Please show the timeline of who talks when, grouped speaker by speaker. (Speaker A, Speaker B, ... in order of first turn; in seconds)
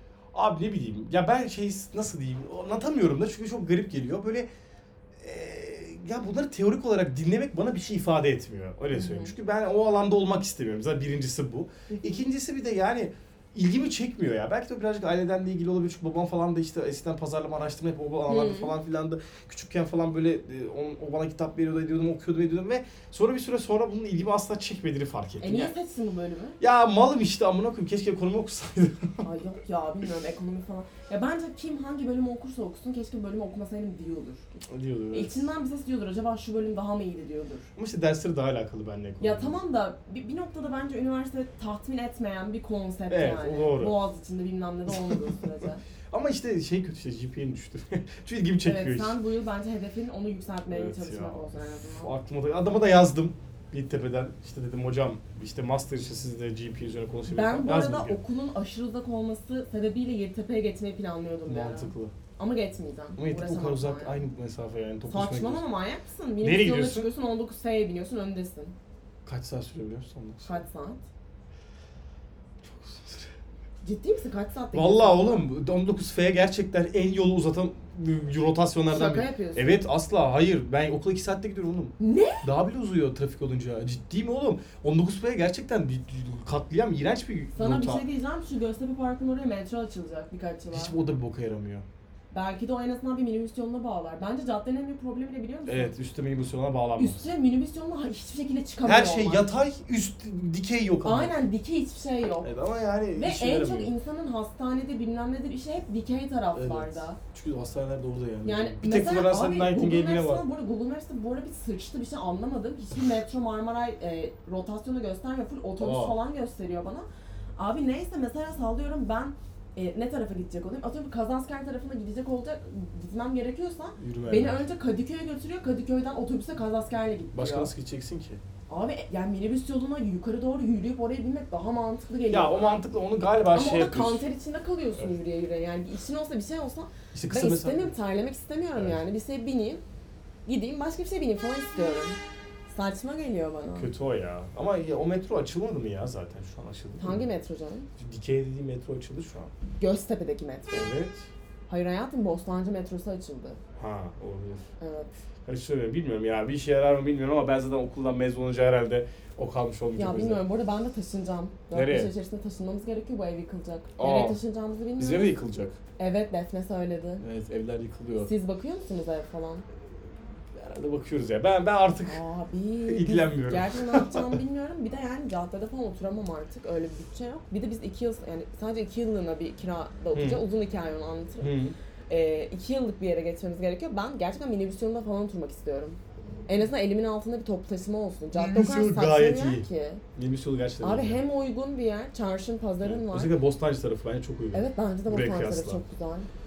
Speaker A: 0.3-4.5, 5.2-25.7, 26.6-29.3, 34.7-35.4, 37.8-39.6, 43.1-44.0, 46.1-49.2, 50.7-58.2, 61.5-62.1, 63.2-65.6, 66.4-67.1, 69.2-70.5, 72.6-73.3, 74.7-88.0, 90.7-91.8, 95.7-97.2, 98.8-101.5, 102.4-103.9, 106.5-110.5, 115.8-116.2, 124.0-124.7, 127.3-128.4, 132.3-134.2, 137.1-138.0, 138.8-139.0, 143.7-147.3, 148.0-149.5, 150.7-151.3, 153.8-154.7, 155.4-160.4, 161.7-162.1, 164.0-164.4, 165.0-165.8, 167.2-168.3, 170.5-172.2, 172.9-174.4, 180.1-180.4, 181.4-181.8, 188.3-191.2, 192.8-195.8
Speaker B: 8.9-9.3, 11.9-12.2, 18.3-18.8, 25.4-26.6, 29.2-37.7, 39.2-45.8, 48.6-52.1, 57.3-64.2, 65.1-68.8, 70.5-71.0, 73.8-75.5, 78.9-79.8, 82.0-82.5, 87.5-91.0, 92.3-96.0, 97.0-99.5, 101.0-102.5, 103.2-107.2, 108.4-117.1, 117.6-127.7, 128.7-132.8, 133.5-139.8, 140.5-143.9, 147.0-147.9, 149.8-150.9, 151.7-153.6, 154.8-155.1, 160.0-165.4, 166.0-167.2, 168.2-169.7, 172.1-181.6, 182.1-190.0, 190.8-193.3, 194.5-196.3